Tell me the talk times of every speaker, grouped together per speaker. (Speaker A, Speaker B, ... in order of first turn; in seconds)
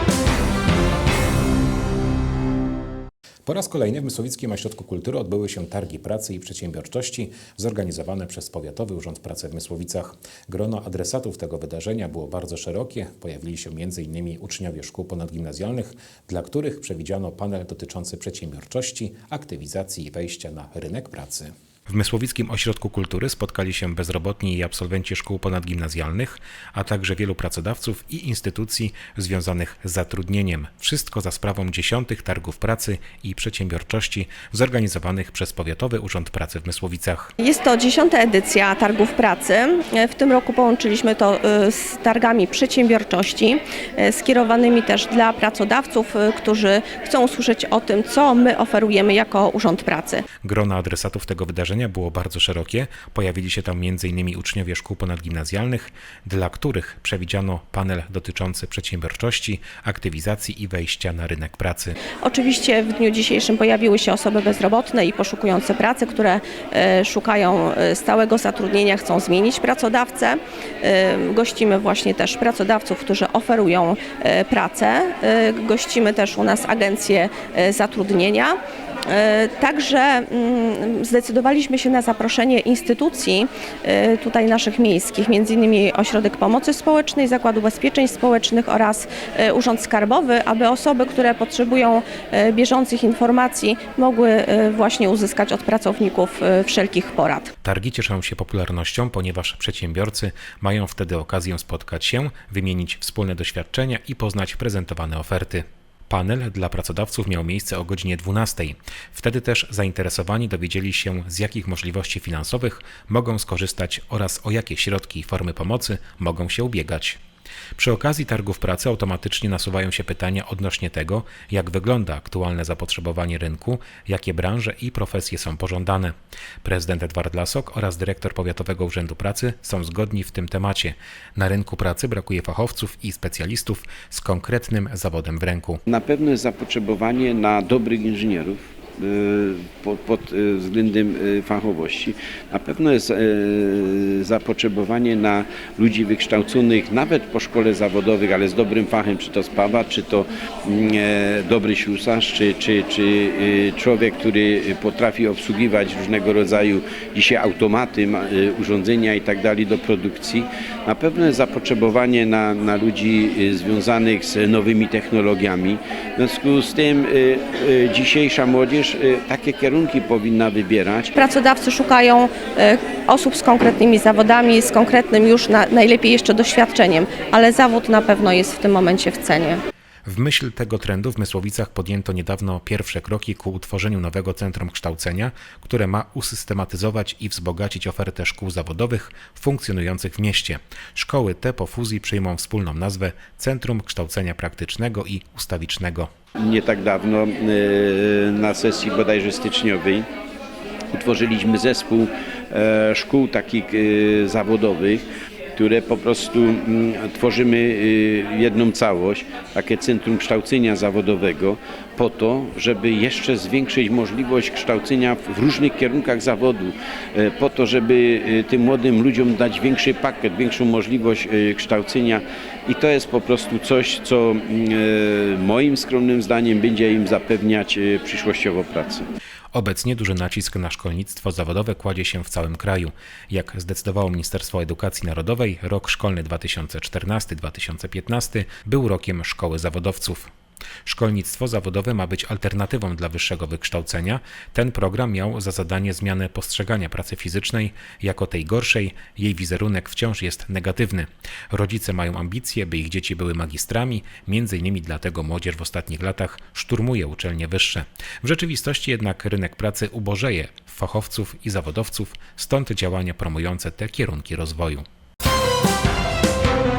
Speaker A: 3.5-37.3, 50.4-62.0, 97.6-117.2, 117.8-135.8, 180.1-196.1, 229.5-240.3, 240.8-264.8
Speaker B: 37.4-50.2, 62.2-97.5, 171.1-179.6
Speaker C: 135.9-171.1, 196.3-200.1, 200.9-205.0, 205.6-229.1